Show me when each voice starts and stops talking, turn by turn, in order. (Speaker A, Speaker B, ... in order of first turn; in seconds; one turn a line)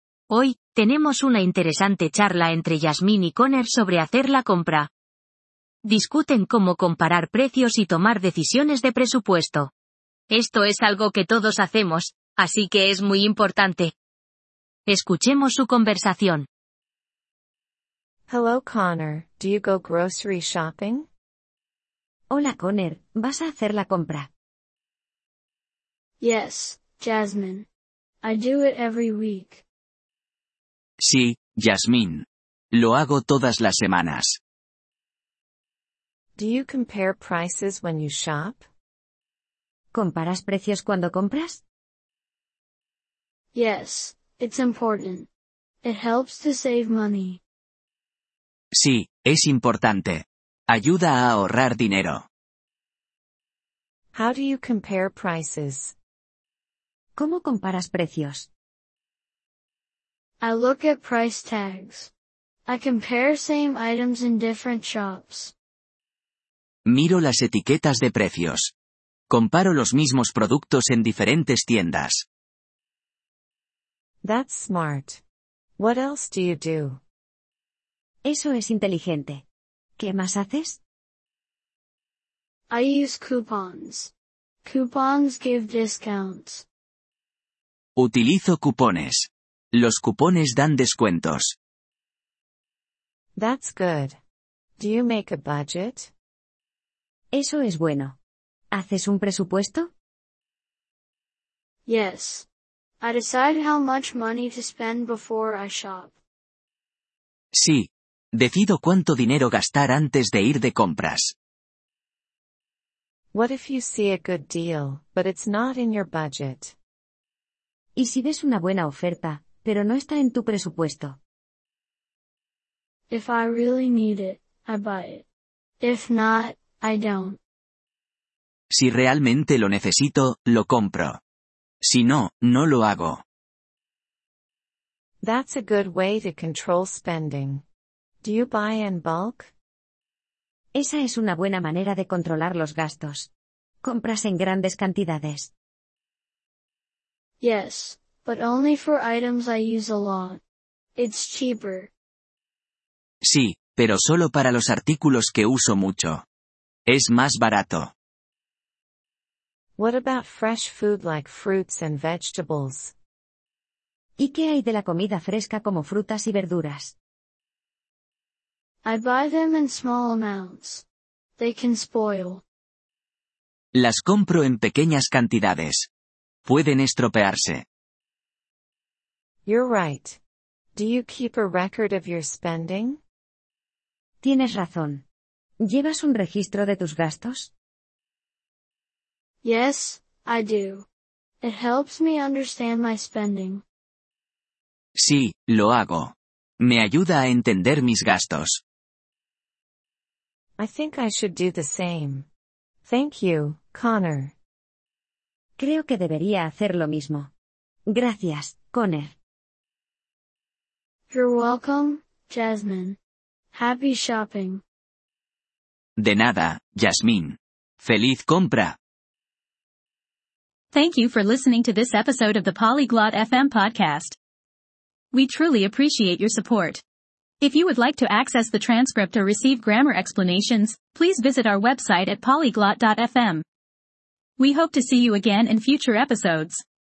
Speaker A: 0.3-4.9
Speaker A: 5.8-9.7
Speaker A: 10.3-13.9
Speaker A: 14.9-16.5
Speaker B: 18.3-21.1
Speaker C: 22.3-24.3
Speaker D: 26.2-27.7
Speaker D: 28.2-29.6
Speaker E: 31.0-34.4
Speaker B: 36.4-38.6
Speaker C: 39.9-41.6
Speaker D: 43.5-45.3
Speaker D: 45.8-47.4
Speaker E: 48.7-52.3
Speaker B: 54.1-55.9
Speaker C: 57.2-58.5
Speaker D: 60.4-62.1
Speaker D: 62.6-65.5
Speaker E: 66.8-68.7
Speaker E: 69.3-72.2
Speaker B: 74.2-75.2
Speaker B: 75.8-77.0
Speaker C: 78.2-79.4
Speaker C: 80.0-80.8
Speaker D: 82.7-84.1
Speaker D: 84.6-86.7
Speaker E: 88.0-91.5
Speaker B: 93.3-94.2
Speaker B: 94.8-96.1
Speaker C: 97.3-98.2
Speaker C: 98.7-99.9
Speaker D: 101.8-102.5
Speaker D: 103.0-106.2
Speaker E: 107.5-111.3
Speaker B: 113.3-116.7
Speaker C: 118.0-121.2
Speaker D: 123.1-125.2
Speaker D: 125.8-127.4
Speaker E: 128.7-131.2
Speaker E: 131.8-133.2
Speaker B: 135.2-137.6
Speaker B: 138.2-139.5
Speaker C: 140.7-143.3
Speaker C: 143.8-145.5
Speaker D: 147.4-150.4
Speaker D: 150.9-151.9
Speaker E: 153.2-156.2
Speaker E: 156.9-157.9
Speaker B: 159.8-162.9
Speaker C: 164.2-166.9
Speaker D: 168.8-170.8
Speaker D: 171.4-172.4
Speaker E: 173.7-175.9
Speaker E: 176.4-177.6
Speaker B: 179.4-180.2
Speaker B: 180.7-183.0
Speaker C: 184.2-185.0
Speaker C: 185.6-187.5
Speaker D: 189.4-190.9
Speaker D: 191.4-193.6
Speaker E: 194.9-198.6
Speaker B: 200.6-202.3
Speaker B: 202.8-204.3
Speaker C: 205.6-207.3
Speaker C: 207.9-209.2
Speaker D: 211.1-213.0
Speaker D: 213.5-214.6
Speaker E: 216.0-218.8
Speaker F: 220.7-224.2
Speaker F: 225.1-226.8
Speaker F: 227.4-233.4
Speaker F: 234.4-236.6